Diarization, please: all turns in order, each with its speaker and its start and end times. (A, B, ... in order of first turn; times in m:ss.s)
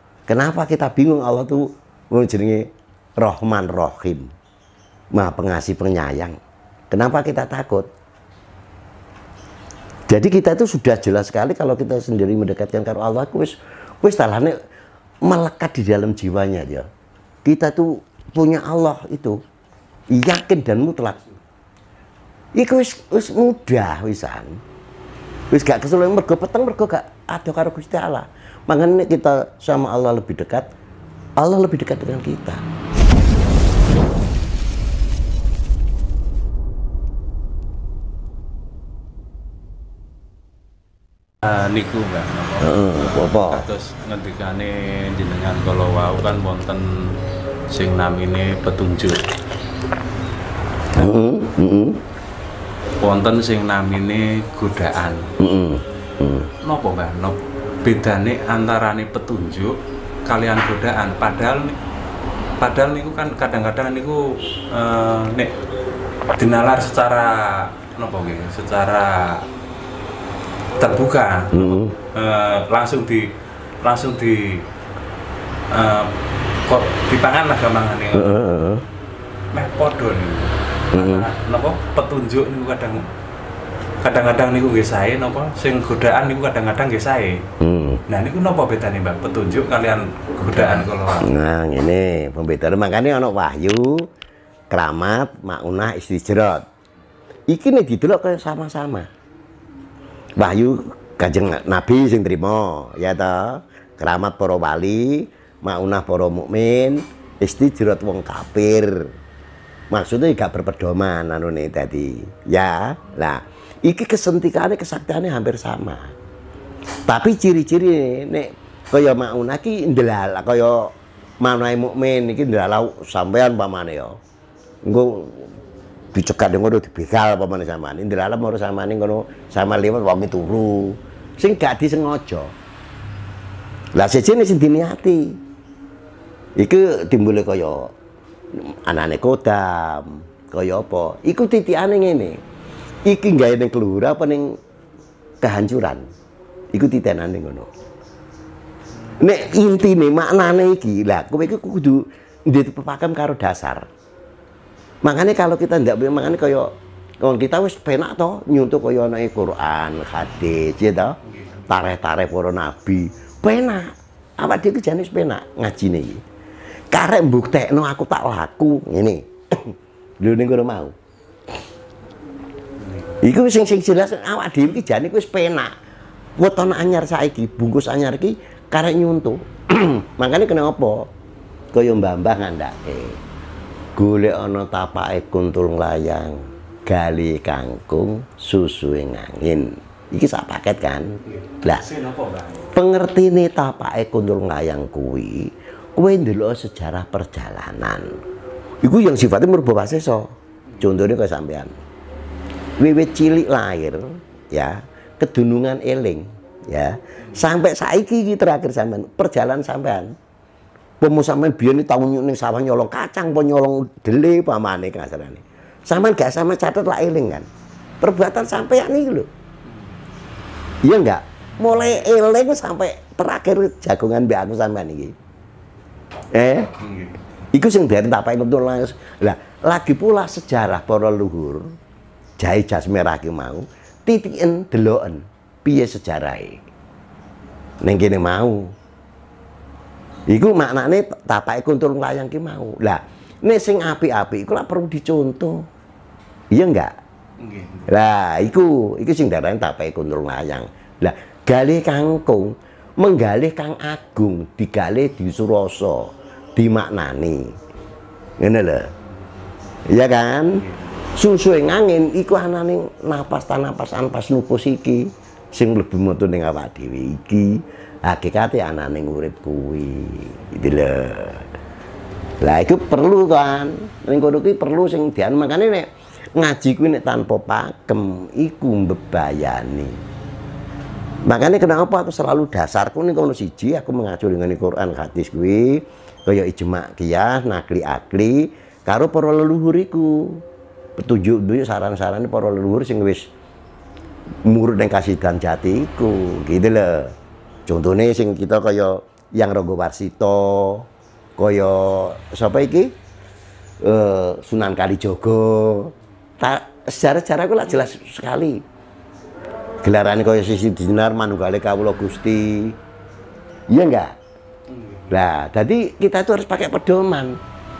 0:00.3-0:02.6 A
0:03.2-0:04.3 A
0:05.1-0:06.4 A
0:06.9-0:07.9 A
0:10.1-0:14.6 A
0:15.2-0:16.9 A
0:17.4-0:19.4 A
0:20.1-0:21.2 A
0:22.6-0:24.6 A
0:25.5-0:30.7 A
0:31.4-0:32.6 A
0:41.4-0:47.2 B
0:42.6-0:43.7 A
0:47.7-0:49.2 B
0:51.0-0:52.0 A
0:53.0-0:55.3 B
0:55.4-0:56.5 A
0:56.6-1:01.8 B
1:02.6-1:05.5 B
1:06.4-1:09.5 B
1:10.8-1:13.3 B
1:11.5-1:12.0 A
1:13.8-1:14.6 B
1:15.7-1:16.1 B
1:16.7-1:18.4 B
1:18.1-1:18.8 A
1:19.5-1:23.1 B
1:20.9-1:21.3 A
1:24.0-1:27.4 B
1:27.6-1:28.0 A
1:28.1-1:31.3 B
1:31.2-1:34.1 A
1:34.7-1:36.6 A
1:37.5-1:39.1 A
1:40.4-1:49.1 A
1:49.9-1:56.1 A
1:57.1-2:04.2 A
2:04.8-2:05.5 A
2:06.1-2:12.5 A
2:14.0-2:15.4 A
2:16.6-2:17.9 A
2:18.5-2:22.4 A
2:23.0-2:24.6 A
2:25.4-2:26.1 A
2:26.7-2:27.7 A
2:29.2-2:33.9 A
2:35.0-2:46.2 A
2:46.9-2:50.9 A
2:53.0-2:55.7 A
2:56.4-3:01.1 A
3:01.7-3:03.2 A
3:04.0-3:11.9 A
3:11.9-3:12.7 B
3:12.7-3:18.2 A
3:18.8-3:21.7 A
3:22.8-3:30.1 A
3:31.0-3:37.5 A
3:38.0-3:39.3 A
3:40.8-3:45.1 A
3:46.3-3:46.7 A
3:47.5-3:51.7 A
3:52.4-3:56.6 A
3:57.8-3:58.7 A
4:00.3-4:05.7 A
4:06.5-4:06.9 A
4:07.8-4:17.5 A
4:18.4-4:18.9 A
4:19.9-4:31.5 A
4:32.4-4:40.0 A
4:41.3-4:50.4 A
4:51.0-4:53.3 A
4:54.4-4:57.2 A
4:57.7-5:02.9 A
5:03.8-5:08.6 A
5:09.8-5:12.8 A
5:13.7-5:14.1 A
5:15.1-5:17.4 A